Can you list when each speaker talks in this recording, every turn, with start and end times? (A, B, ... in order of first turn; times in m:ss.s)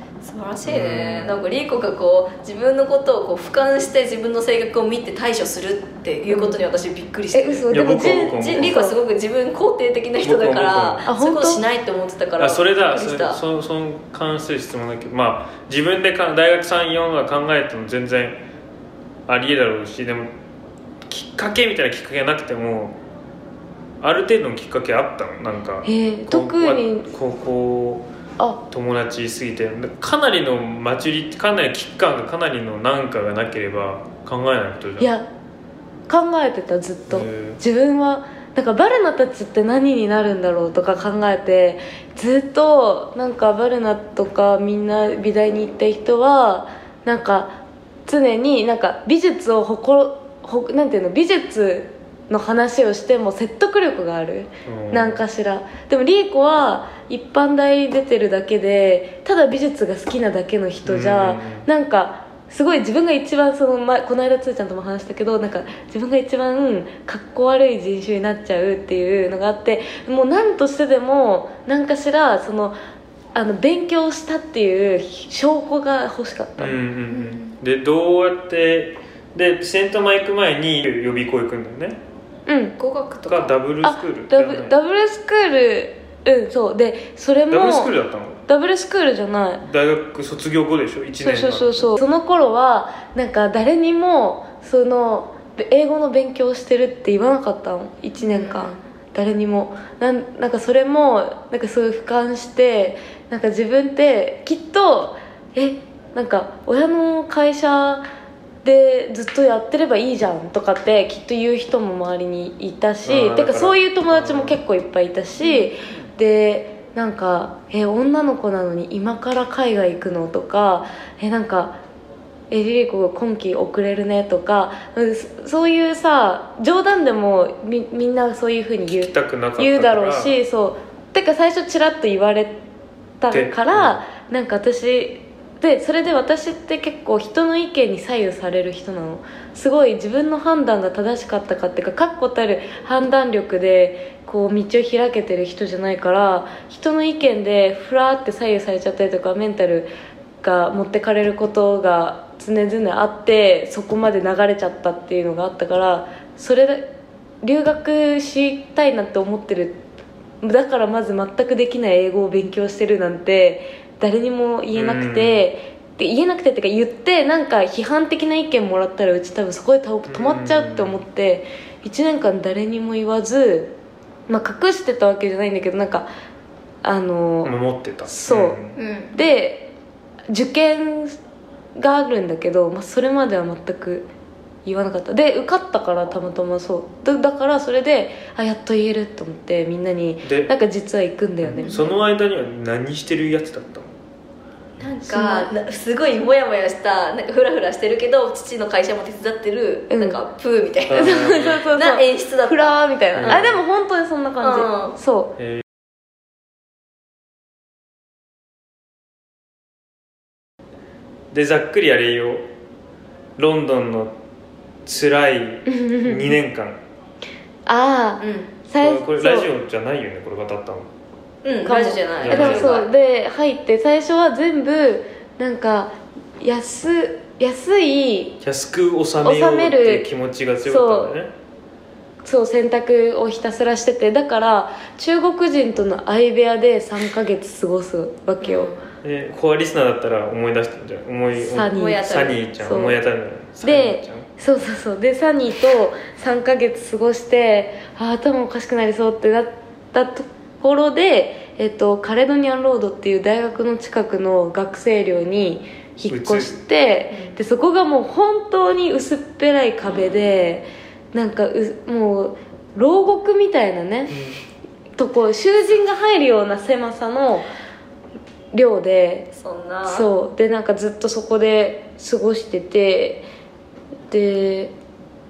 0:00.2-0:13.4 A
0:00.6-0:01.3 B
0:06.3-0:06.6 C
0:07.3-0:09.0 C
0:07.7-0:08.8 B
0:10.2-0:11.0 B
0:11.1-0:11.6 C
0:12.4-0:18.4 B
0:19.3-0:20.3 B
0:21.0-0:23.0 B
0:24.0-0:28.1 B
0:25.8-0:27.1 C
0:28.7-0:35.1 B
0:35.0-0:35.2 C
0:36.1-0:47.6 C
0:37.1-0:37.6 B
0:48.1-1:12.7 C
0:54.6-0:55.2 B
1:00.8-1:01.6 B
1:13.3-1:16.8 C
1:16.6-1:22.0 B
1:17.1-1:17.6 A
1:22.5-1:22.7 C
1:22.8-1:23.5 A
1:23.3-1:24.7 B
1:23.8-1:27.9 C
1:27.5-1:28.4 B
1:28.5-1:29.6 C
1:29.6-1:32.0 B
1:31.2-1:48.0 C
1:38.2-1:38.8 A
1:48.6-2:01.8 C
1:53.0-1:54.6 B
1:55.4-1:55.7 A
2:02.5-2:12.6 C
2:08.9-2:10.4 B
2:13.2-2:29.9 C
2:13.3-2:14.0 B
2:30.4-2:36.9 C
2:37.4-2:39.8 C
2:40.4-2:53.7 C
2:44.7-2:45.4 B
2:50.1-2:51.0 B
2:54.3-2:56.1 C
2:56.8-2:57.5 C
2:57.4-2:58.7 B
2:58.1-2:59.7 C
2:58.8-2:59.2 A
3:00.3-3:01.2 C
3:01.8-3:04.1 C
3:04.6-3:11.8 C
3:10.2-3:10.5 B
3:11.4-3:13.9 B
3:14.8-3:23.5 A
3:15.1-3:15.5 C
3:19.9-3:20.2 C
3:20.9-3:21.7 B
3:20.9-3:25.3 C
3:23.1-3:23.6 B
3:24.4-3:24.9 A
3:31.3-3:32.5 B
3:33.4-3:34.2 B
3:34.8-3:36.8 B
3:35.7-3:36.4 C
3:37.6-3:39.5 C
3:38.2-3:38.5 A
3:38.8-3:40.9 B
3:41.4-3:42.9 A
3:41.6-3:48.4 C
3:42.2-3:42.8 B
3:48.4-3:51.3 B
3:49.2-3:50.1 C
3:50.6-3:51.1 C
3:52.2-3:58.7 C
3:58.4-3:58.8 A
3:59.0-4:04.3 B
4:01.4-4:03.0 C
4:01.7-4:02.4 A
4:03.6-4:24.2 C
4:16.0-4:16.5 B
4:17.1-4:17.4 A
4:24.1-4:24.4 B
4:25.0-4:27.5 C
4:28.5-4:29.3 C
4:29.3-4:30.1 A
4:29.8-4:33.2 C
4:34.1-4:34.7 C